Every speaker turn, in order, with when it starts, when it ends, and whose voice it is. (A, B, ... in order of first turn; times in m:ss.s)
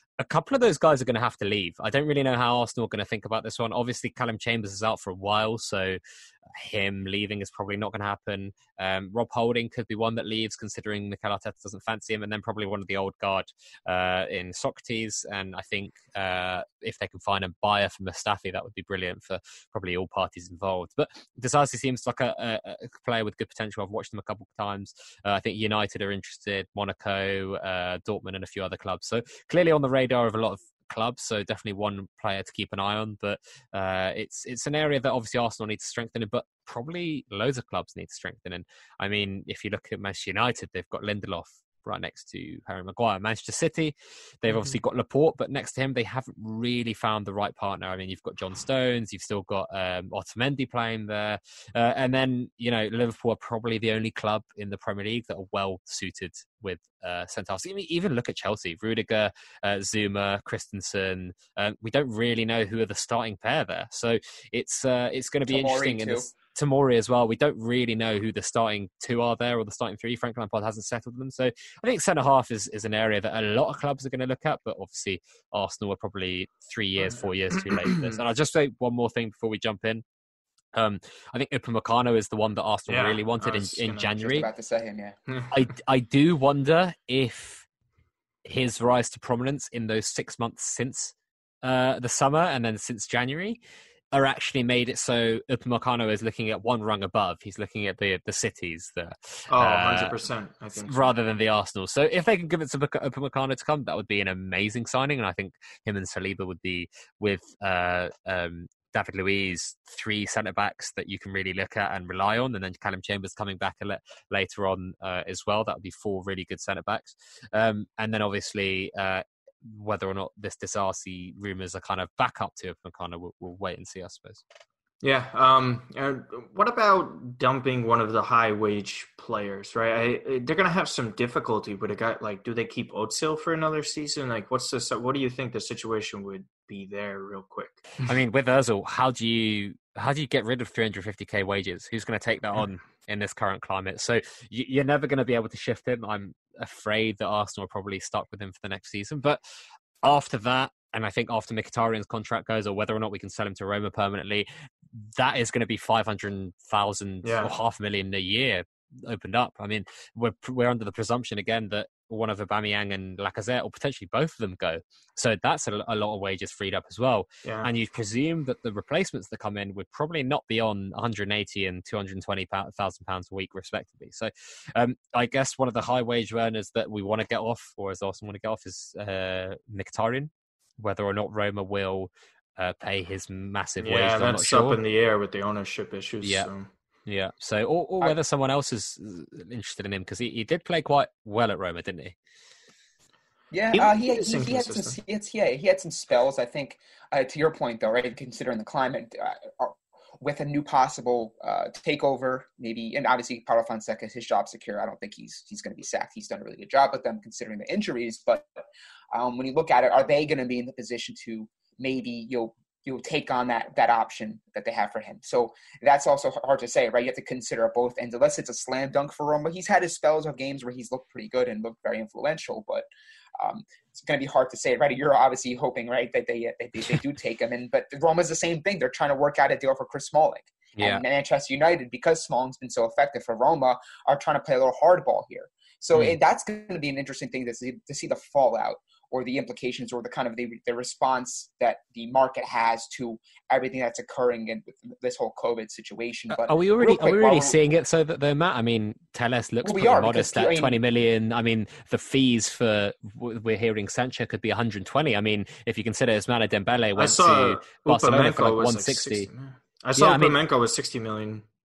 0:00.2-1:20.0 A
1:05.5-1:06.3 B
1:17.6-1:18.2 C
1:20.7-1:24.5 A
1:22.9-1:24.1 C
1:24.2-1:25.2 B
1:25.5-1:27.6 A
1:28.4-1:33.6 A
1:34.1-1:40.1 A
1:39.5-1:41.1 C
1:40.8-2:04.4 A
2:05.0-2:17.9 C
2:18.0-2:29.4 A
2:30.0-3:04.8 A
2:37.2-2:37.5 C
3:03.8-3:06.7 C
3:06.2-3:06.5 A
3:07.0-3:12.2 A
3:13.5-3:28.5 B
3:13.7-3:15.0 C
3:29.1-3:42.8 B
3:43.4-4:07.6 B
3:50.8-3:51.0 A
4:06.3-4:19.3 A
4:09.6-4:10.8 B
4:17.0-4:21.4 C
4:20.0-4:20.4 A